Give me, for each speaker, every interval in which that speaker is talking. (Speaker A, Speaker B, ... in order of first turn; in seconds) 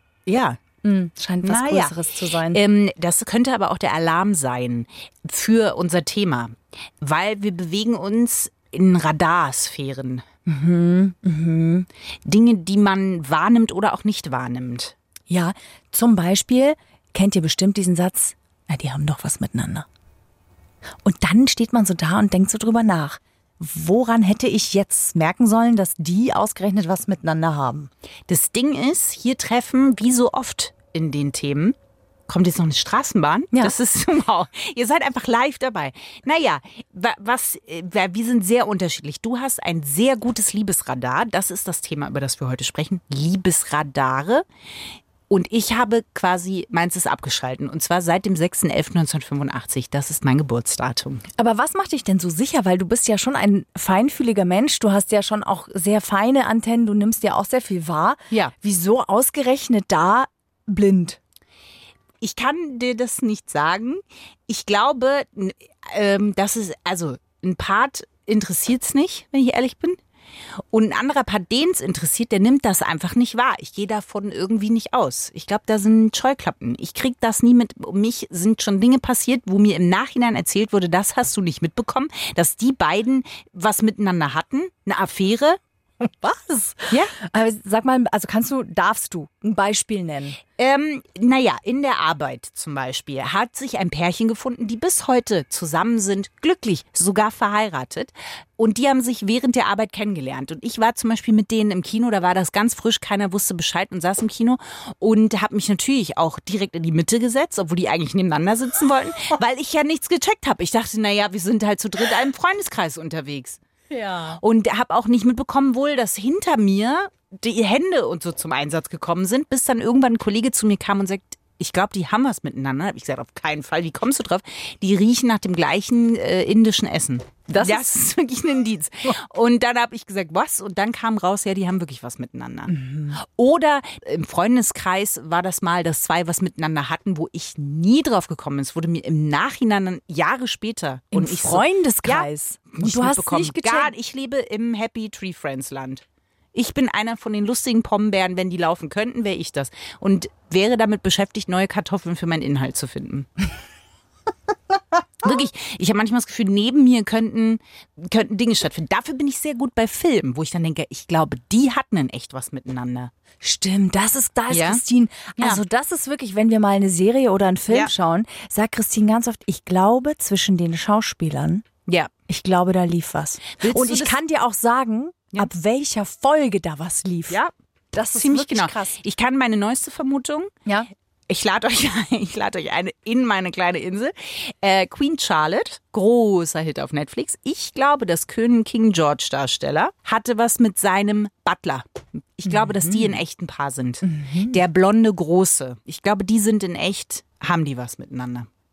Speaker A: 0.2-0.6, 1.4-1.9, 2.5-10.2, 12.2-14.9, 28.3-31.8, 32.3-44.4, 45.3-51.2, 62.2-70.0, 70.7-85.6, 90.5-113.6, 114.4-153.3, 155.2-163.1, 164.5-164.8, 171.9-172.1, 173.6-174.2, 178.1-180.5, 181.3-198.5
Speaker B: 0.8-2.6, 10.4-11.9, 15.3-19.9, 21.0-27.9, 51.4-61.2, 86.0-90.4, 113.9-114.4, 127.5-127.8, 132.7-133.2, 141.1-143.9, 163.4-171.7, 172.3-177.4, 177.9-179.0, 192.5-193.1, 194.0-194.6